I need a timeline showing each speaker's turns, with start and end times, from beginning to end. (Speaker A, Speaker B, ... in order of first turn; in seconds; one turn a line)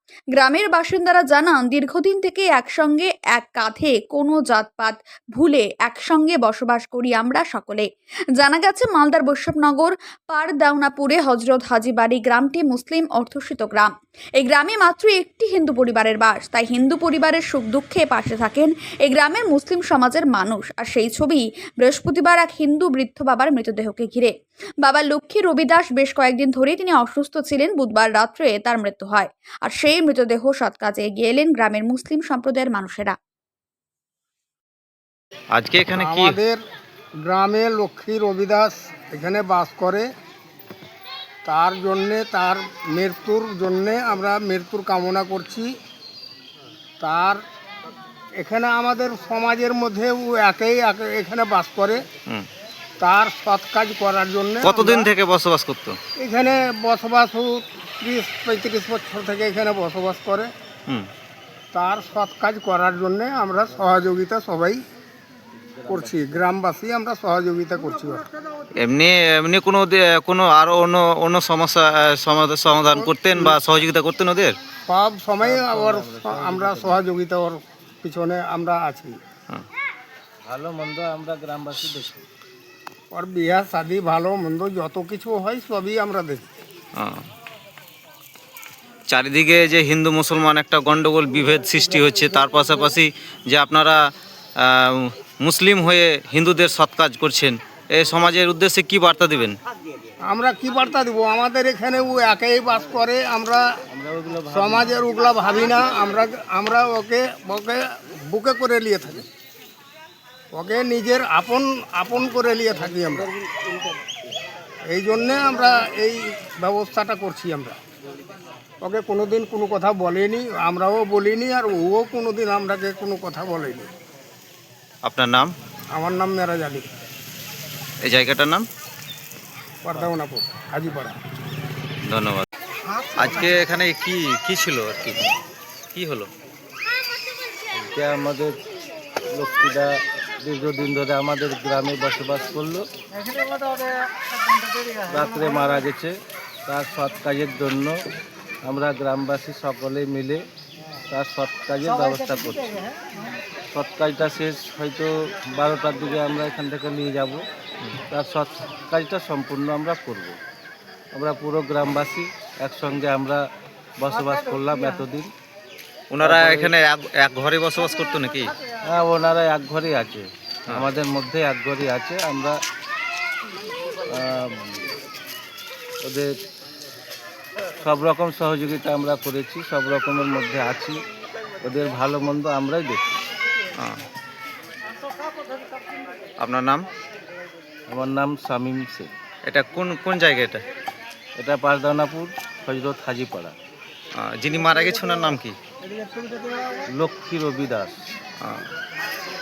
Speaker A: 0.3-33.1
Speaker B: 35.5-36.4
Speaker C: 35.9-36.6
Speaker C: 37.2-40.0
Speaker C: 41.4-45.7
Speaker C: 47.0-47.4
Speaker C: 48.4-52.0
Speaker C: 53.0-55.1
Speaker B: 54.6-56.0
Speaker C: 56.2-60.5
Speaker C: 61.7-64.8
Speaker D: 65.6-66.5
Speaker C: 65.9-68.2
Speaker B: 68.8-74.6
Speaker C: 72.9-73.6
Speaker C: 74.9-79.2
Speaker D: 75.4-77.0
Speaker D: 80.4-82.2
Speaker C: 83.1-86.5
Speaker B: 87.0-87.2
Speaker B: 89.1-94.0
Speaker B: 94.6-99.5
Speaker C: 100.2-103.7
Speaker D: 103.9-105.0
Speaker C: 104.5-109.2
Speaker C: 110.5-113.3
Speaker D: 112.9-114.2
Speaker C: 114.9-117.8
Speaker C: 118.8-123.9
Speaker B: 125.0-125.5
Speaker C: 125.9-126.8
Speaker B: 128.0-128.7
Speaker C: 129.8-131.2
Speaker B: 132.1-132.4
Speaker B: 133.2-135.3
Speaker B: 135.9-136.3
Speaker D: 137.8-138.5
Speaker D: 139.3-139.9
Speaker D: 140.4-142.8
Speaker D: 145.1-146.1
Speaker D: 146.7-147.9
Speaker D: 148.6-150.4
Speaker D: 151.1-153.0
Speaker D: 153.7-157.4
Speaker D: 158.1-160.4
Speaker D: 161.1-163.4
Speaker D: 164.0-165.3
Speaker B: 166.1-168.5
Speaker D: 166.2-166.8
Speaker D: 168.8-172.6
Speaker D: 174.1-174.8
Speaker D: 176.0-176.3
Speaker D: 177.8-181.0
Speaker D: 181.6-183.2
Speaker B: 186.4-186.9
Speaker D: 187.9-189.1
Speaker B: 189.4-190.6
Speaker D: 191.3-193.5
Speaker B: 194.1-195.6
Speaker D: 196.9-198.0
Speaker B: 198.4-198.7